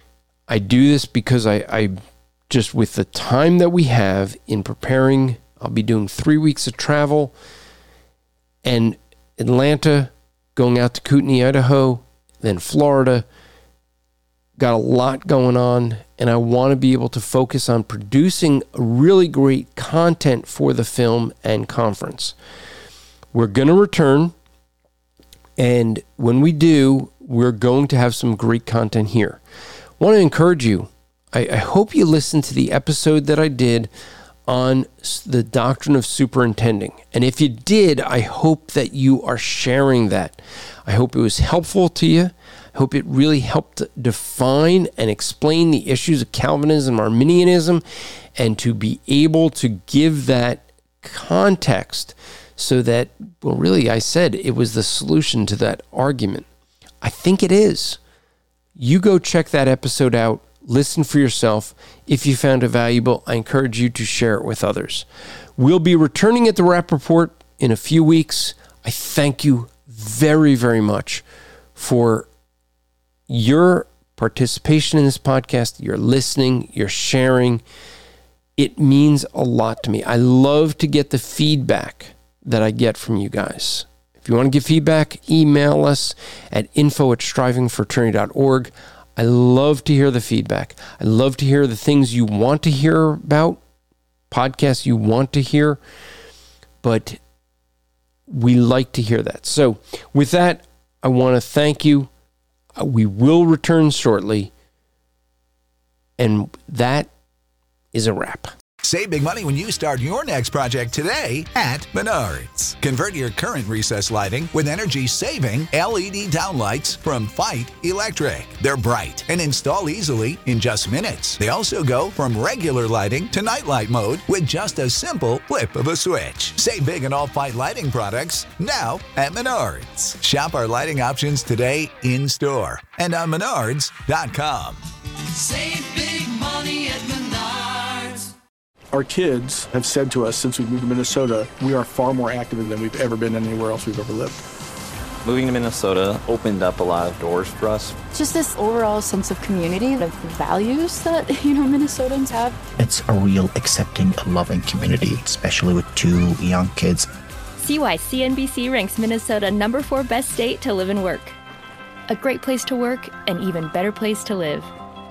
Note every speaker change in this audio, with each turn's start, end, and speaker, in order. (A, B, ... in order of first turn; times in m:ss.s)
0:00.5-0:02.0 A
0:02.5-0:07.3 A
0:08.6-0:13.2 A
0:14.6-0:22.3 A
0:23.3-0:24.3 A
0:25.6-0:29.4 A
0:30.0-0:33.9 A
0:34.5-0:47.8 A
0:48.4-0:56.5 A
0:57.0-0:58.0 A
0:58.8-1:05.0 A
1:05.6-1:11.2 A
1:11.8-1:12.3 A
1:13.3-1:17.6 A
1:18.6-1:33.6 A
1:34.3-1:35.8 A
1:36.8-1:37.2 A
1:38.3-1:42.1 A
1:42.8-1:44.5 A
1:46.2-1:47.1 A
1:47.9-1:48.5 A
1:48.8-2:14.8 B
2:18.9-2:24.4 C
2:25.2-2:27.9 D
2:28.2-2:29.7 E
2:30.6-2:32.5 E
2:32.8-2:37.1 F
2:37.6-2:41.4 G
2:42.1-2:44.7 G